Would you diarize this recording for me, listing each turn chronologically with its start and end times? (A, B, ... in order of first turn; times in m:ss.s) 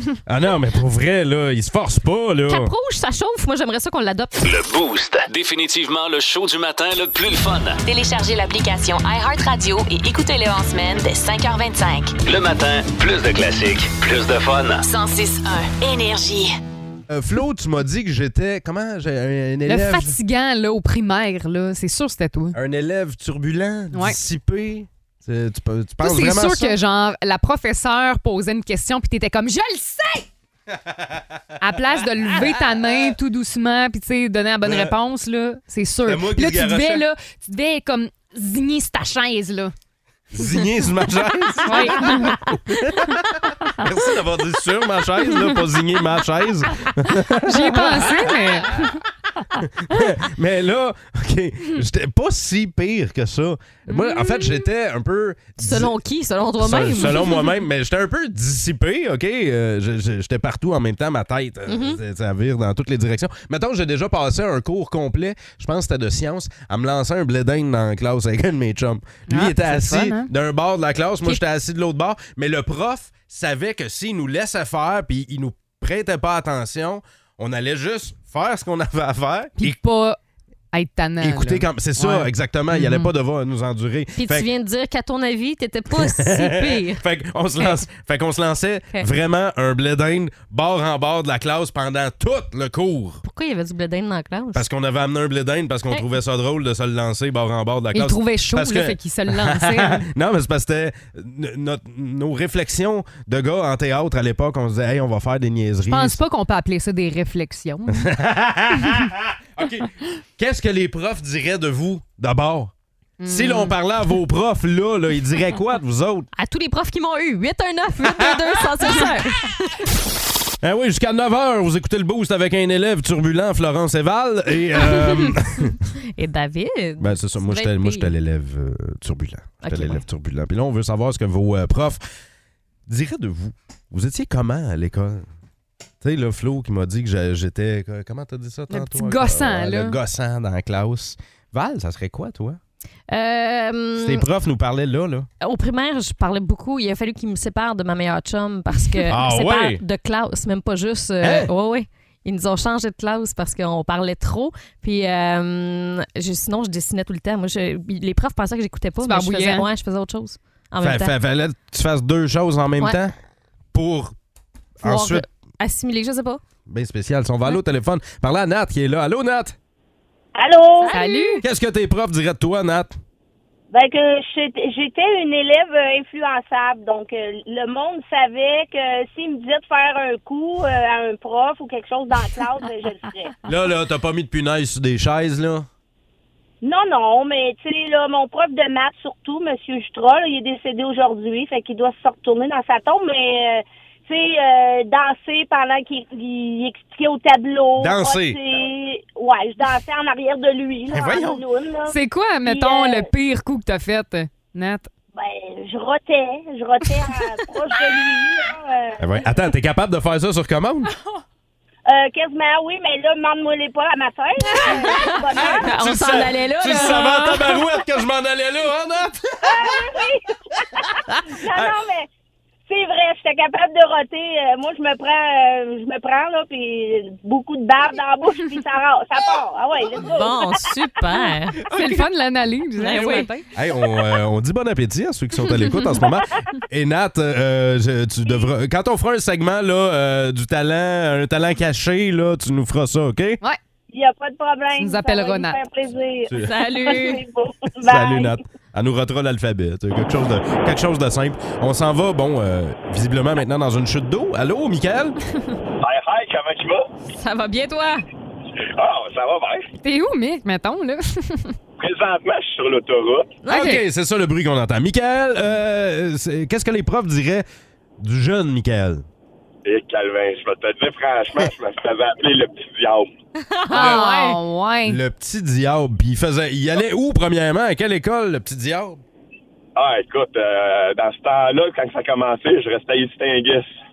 0:00.3-0:02.7 A
0:02.5-0:04.4 B
0:04.4-0:07.8 C
0:07.8-0:12.2 D
0:12.3-0:14.8 C
0:14.8-0:16.6 D
0:17.1-0:20.2 A
0:19.7-0:22.6 E
0:22.6-0:26.8 A
0:23.9-0:24.2 E
0:26.0-0:30.3 E
0:30.9-0:31.2 A
0:31.6-0:39.7 E
0:32.3-0:33.0 A
0:34.6-0:35.0 A
0:36.1-0:37.1 A
0:40.3-0:48.9 A
0:41.6-0:42.4 E
0:47.4-0:48.9 E
0:49.6-0:55.9 A
0:55.6-0:57.5 B
0:56.6-1:19.8 A
1:01.7-1:02.0 B
1:09.3-1:10.3 E
1:19.6-1:20.2 E
1:20.7-1:23.1 E
1:21.2-1:24.5 A
1:24.2-1:27.0 B
1:25.9-1:33.2 A
1:33.2-1:34.7 B
1:34.5-1:46.2 A
1:37.9-1:40.1 E
1:45.9-1:48.1 E
1:47.9-1:52.7 A
1:53.2-1:53.8 E
1:53.3-1:56.3 A
1:56.3-1:59.9 B
1:58.1-1:58.4 A
2:00.6-2:05.8 A
2:04.9-2:05.3 B
2:06.1-2:08.1 B
2:07.0-2:12.0 A
2:09.6-2:10.0 B
2:12.9-2:15.3 A
2:16.0-2:22.6 A
2:18.7-2:20.0 E
2:23.1-2:24.3 B
2:24.0-2:25.3 A
2:25.4-2:41.2 B
2:29.1-2:29.8 A
2:31.2-2:31.5 A
2:39.0-2:39.7 E
2:40.8-2:43.1 A
2:43.7-2:44.1 A
2:44.8-2:46.4 B
2:44.8-2:45.2 A
2:46.7-2:49.6 A
2:50.4-2:51.0 F
2:50.8-2:51.4 B
2:50.9-2:51.4 E
2:51.4-2:53.0 A
2:53.7-3:03.4 F
3:03.4-3:05.7 A
3:06.6-3:23.1 F
3:17.8-3:18.4 A
3:20.9-3:21.4 A
3:21.9-3:24.9 E
3:25.1-3:29.5 F
3:29.0-3:30.9 A
3:31.9-3:35.7 F
3:34.9-3:37.6 B
3:35.3-3:40.0 A
3:39.4-3:40.2 F
3:40.8-3:42.1 F
3:42.7-3:50.7 F
3:50.0-3:51.7 B
3:51.7-3:53.5 E
3:52.8-3:53.3 B
3:53.5-4:03.4 A
3:55.6-3:56.0 E
4:03.9-4:06.3 F
4:04.8-4:05.6 E
4:06.4-4:07.2 B
4:06.8-4:08.4 F
4:07.8-4:15.2 A
4:15.8-4:16.9 G
4:17.1-4:18.1 B
4:18.7-4:19.7 G
4:19.8-4:21.6 E
4:21.8-4:23.4 G
4:23.4-4:23.8 B
4:23.5-4:23.8 E
4:23.5-4:27.5 A
4:28.0-4:29.0 A
4:29.6-4:33.1 G
4:33.4-4:34.4 B
4:33.7-4:35.0 E
4:33.7-4:34.0 A
4:34.9-4:39.0 A
4:39.8-4:43.7 G